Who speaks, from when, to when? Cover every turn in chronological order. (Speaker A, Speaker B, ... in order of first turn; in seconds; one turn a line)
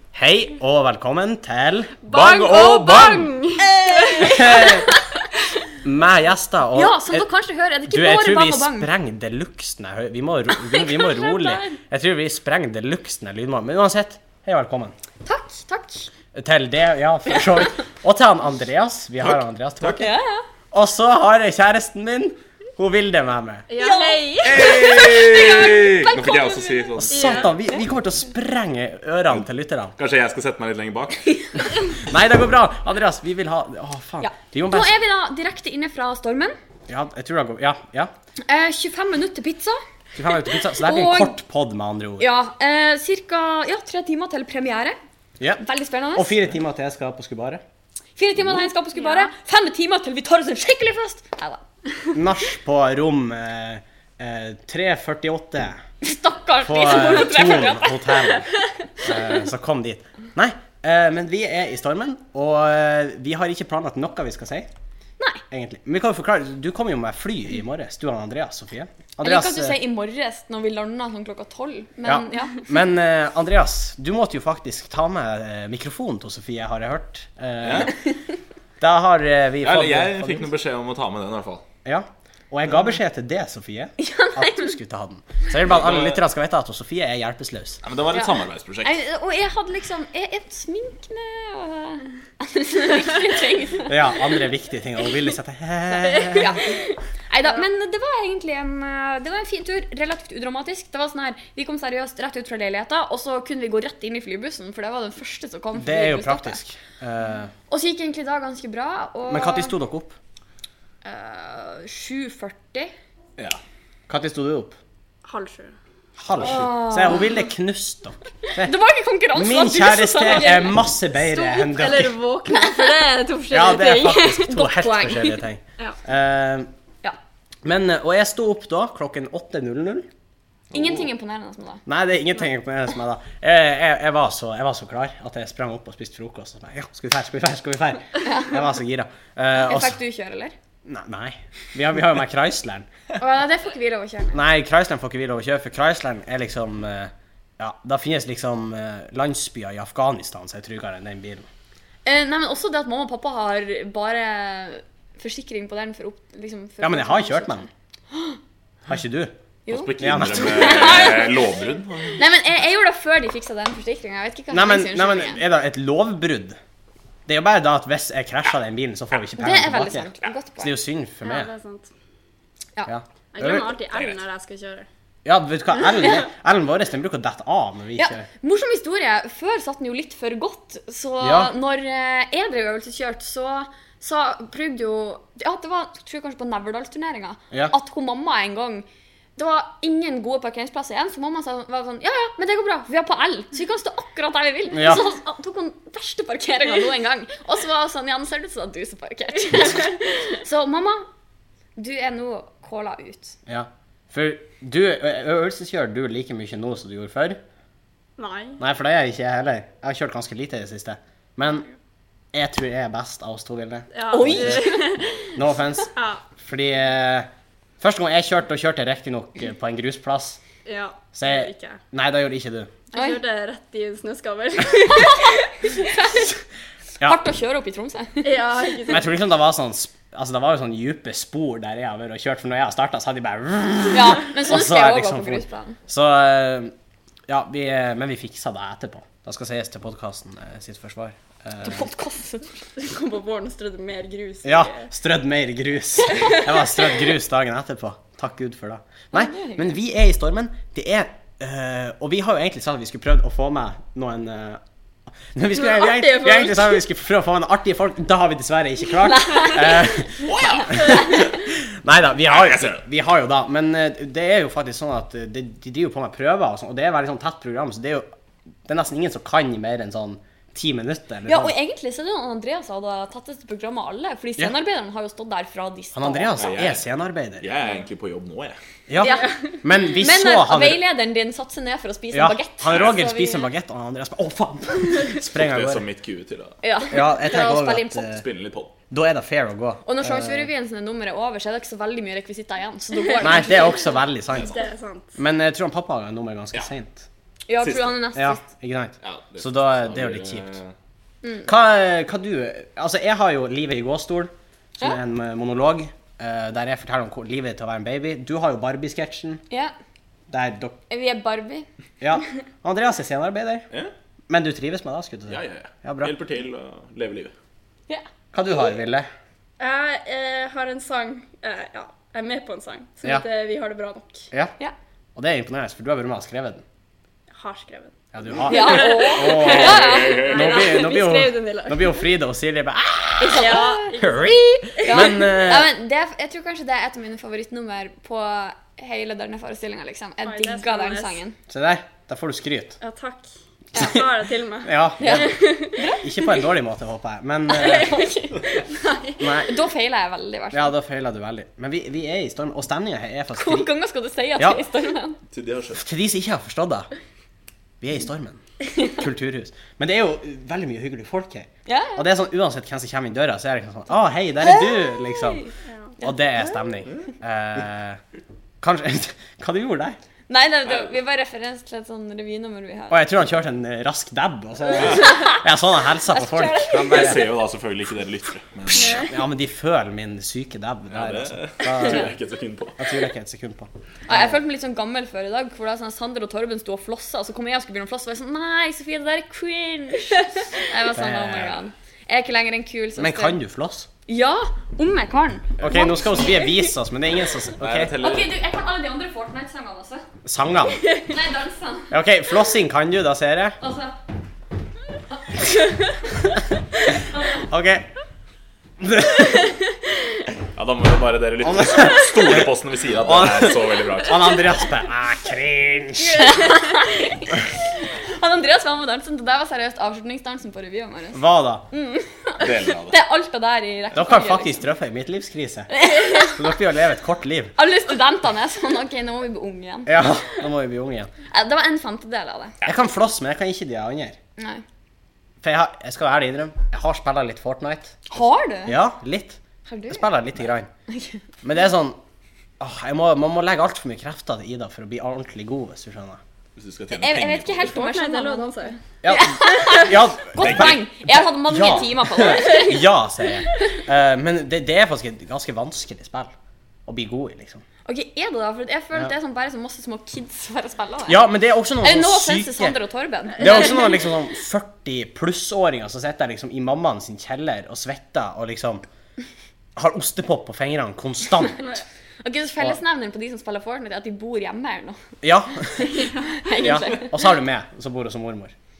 Speaker A: 0.1-3.2
Speaker B: 2.0-4.8
Speaker C: 3.6-5.2
Speaker A: 4.2-4.9
Speaker A: 5.8-7.3
Speaker C: 6.7-8.9
Speaker A: 7.9-14.9
Speaker C: 10.9-11.4
Speaker C: 15.2-16.1
Speaker A: 16.3-20.1
Speaker D: 19.2-20.0
Speaker C: 19.9-20.4
Speaker A: 20.7-23.7
Speaker B: 23.7-24.8
Speaker C: 23.7-27.0
Speaker D: 24.4-27.5
Speaker A: 26.9-29.9
Speaker B: 27.1-27.5
Speaker D: 29.9-31.3
Speaker A: 32.0-34.9
Speaker C: 34.2-36.5
Speaker A: 36.9-38.1
Speaker C: 38.5-39.8
Speaker A: 40.1-42.2
Speaker C: 40.5-41.3
Speaker C: 42.2-45.0
Speaker C: 45.6-46.4
Speaker A: 46.1-47.6
Speaker C: 48.2-51.6
Speaker B: 49.0-49.3
Speaker A: 52.1-55.8
Speaker C: 56.0-58.4
Speaker A: 56.6-64.7
Speaker A: 65.5-69.8
Speaker C: 69.2-72.6
Speaker A: 72.0-78.0
Speaker D: 77.6-77.9
Speaker A: 78.8-80.5
Speaker D: 79.6-81.6
Speaker A: 81.8-87.8
Speaker C: 84.0-84.7
Speaker D: 85.6-86.2
Speaker D: 87.8-89.0
Speaker C: 88.1-93.9
Speaker A: 93.8-96.6
Speaker C: 96.1-106.6
Speaker A: 105.8-107.5
Speaker C: 107.7-109.7
Speaker A: 109.3-110.2
Speaker C: 111.0-112.9
Speaker A: 114.1-114.7
Speaker B: 115.2-115.7
Speaker A: 116.2-118.8
Speaker C: 116.4-117.3
Speaker C: 118.6-121.9
Speaker A: 119.3-122.2
Speaker B: 120.3-120.7
Speaker B: 121.3-124.5
Speaker C: 122.5-123.3
Speaker A: 123.5-126.7
Speaker C: 124.3-125.9
Speaker A: 127.6-130.1
Speaker D: 130.7-131.1
Speaker C: 130.7-131.8
Speaker A: 131.8-140.0
Speaker C: 138.2-138.6
Speaker C: 139.6-140.5
Speaker A: 140.8-142.9
Speaker C: 143.2-144.4
Speaker A: 144.3-151.5
Speaker C: 152.0-158.4
Speaker A: 156.8-157.7
Speaker A: 158.9-159.3
Speaker C: 159.7-161.5
Speaker D: 159.7-162.2
Speaker A: 160.0-161.1
Speaker C: 162.2-165.4
Speaker A: 164.5-166.6
Speaker A: 167.3-171.5
Speaker C: 169.4-170.7
Speaker B: 171.2-171.9
Speaker A: 172.8-173.7
Speaker B: 173.3-174.9
Speaker D: 173.9-174.2
Speaker A: 175.2-178.2
Speaker C: 178.0-201.1
Speaker A: 181.2-181.5
Speaker A: 194.7-195.0
Speaker C: 201.8-203.3
Speaker A: 203.4-207.4
Speaker B: 208.2-208.6
Speaker A: 208.6-211.7
Speaker A: 212.3-214.7
Speaker B: 213.9-215.4
Speaker C: 214.1-215.0
Speaker A: 215.3-217.3
Speaker B: 215.9-216.2
Speaker A: 217.8-220.4
Speaker B: 220.6-221.8
Speaker A: 221.1-222.7
Speaker B: 222.9-225.4
Speaker C: 222.9-223.2
Speaker C: 224.9-225.2
Speaker C: 225.8-226.3
Speaker C: 227.0-228.3
Speaker B: 228.2-229.1
Speaker A: 228.9-236.7
Speaker C: 233.9-235.8
Speaker A: 237.3-241.9
Speaker C: 241.6-242.4
Speaker B: 242.8-244.9
Speaker A: 244.4-254.6
Speaker C: 249.1-249.7
Speaker A: 255.3-268.1
Speaker B: 255.5-256.8
Speaker C: 259.1-259.6
Speaker D: 260.2-261.3
Speaker D: 262.2-262.8
Speaker A: 268.6-271.5
Speaker C: 271.2-276.4
Speaker A: 275.9-277.5
Speaker D: 276.4-276.8
Speaker D: 277.4-278.6
Speaker A: 278.9-280.8
Speaker C: 279.0-283.5
Speaker B: 279.0-279.5
Speaker A: 282.1-285.8
Speaker D: 282.7-282.9
Speaker D: 285.3-286.6
Speaker C: 286.6-288.1
Speaker A: 286.9-288.2
Speaker D: 288.1-288.7
Speaker A: 288.9-290.5
Speaker C: 289.9-293.8
Speaker B: 293.0-293.7
Speaker A: 293.2-294.5
Speaker D: 294.3-294.6
Speaker B: 294.4-295.1
Speaker A: 295.2-297.1
Speaker C: 297.5-298.4
Speaker D: 297.6-297.9
Speaker A: 298.1-300.5
Speaker D: 299.0-300.7
Speaker A: 301.4-309.4
Speaker A: 310.3-310.8
Speaker C: 310.9-311.6
Speaker A: 312.0-313.7
Speaker A: 314.3-316.1
Speaker D: 315.3-317.3
Speaker A: 318.3-319.1
Speaker B: 319.6-324.2
Speaker A: 325.1-326.6
Speaker B: 327.3-327.9
Speaker A: 328.1-335.7
Speaker C: 328.5-330.7
Speaker B: 328.5-332.0
Speaker D: 329.4-330.6
Speaker C: 333.2-334.0
Speaker B: 333.3-334.2
Speaker B: 334.8-335.1
Speaker C: 334.8-341.4
Speaker B: 340.2-341.2
Speaker A: 341.5-342.8
Speaker B: 342.8-345.8
Speaker C: 343.7-344.0
Speaker A: 343.8-344.0
Speaker A: 344.6-345.4
Speaker C: 345.0-346.4
Speaker A: 346.0-348.1
Speaker C: 347.5-348.6
Speaker B: 347.5-349.2
Speaker A: 349.2-349.5
Speaker C: 349.3-350.7
Speaker A: 350.5-353.7
Speaker C: 353.3-355.2
Speaker D: 355.3-355.8
Speaker A: 355.8-356.9
Speaker A: 357.8-365.4
Speaker C: 361.6-362.0
Speaker C: 364.4-366.1
Speaker A: 366.0-368.0
Speaker A: 368.6-370.0
Speaker C: 370.3-373.0
Speaker A: 372.9-377.2
Speaker C: 374.9-375.4
Speaker C: 376.1-377.2
Speaker D: 376.9-379.1
Speaker B: 378.7-379.1
Speaker A: 378.8-382.1
Speaker D: 380.9-382.8
Speaker A: 382.8-384.4
Speaker C: 384.1-393.4
Speaker A: 390.9-391.6
Speaker A: 393.0-393.9
Speaker C: 394.1-396.6
Speaker A: 395.6-397.9
Speaker D: 397.6-398.3
Speaker C: 398.0-400.0
Speaker A: 400.2-400.8
Speaker C: 401.0-401.9
Speaker A: 401.9-403.6
Speaker C: 403.6-404.0
Speaker A: 407.3-407.9
Speaker A: 408.8-409.5
Speaker D: 410.5-414.5
Speaker A: 411.4-416.3
Speaker B: 416.0-416.8
Speaker C: 416.2-424.6
Speaker A: 421.1-421.6
Speaker D: 422.4-423.0
Speaker A: 423.9-427.5
Speaker C: 425.7-426.4
Speaker C: 427.6-430.0
Speaker A: 429.9-431.1
Speaker C: 431.3-432.5
Speaker A: 432.6-434.2
Speaker C: 434.4-434.6
Speaker A: 435.4-438.0
Speaker C: 438.1-438.8
Speaker A: 438.6-439.4
Speaker C: 439.6-440.0
Speaker A: 439.9-440.7
Speaker C: 440.9-441.2
Speaker A: 441.4-442.0
Speaker A: 442.6-446.2
Speaker D: 446.6-447.8
Speaker C: 446.9-452.8
Speaker B: 447.7-448.8
Speaker A: 449.0-456.3
Speaker D: 450.4-450.8
Speaker B: 452.3-452.8
Speaker A: 456.9-457.6
Speaker C: 457.9-461.2
Speaker A: 461.1-462.8
Speaker C: 461.8-463.9
Speaker A: 463.4-468.8
Speaker A: 469.8-471.7
Speaker C: 472.2-475.0
Speaker A: 475.2-475.9
Speaker C: 475.7-477.2
Speaker B: 475.9-476.3
Speaker A: 476.6-478.5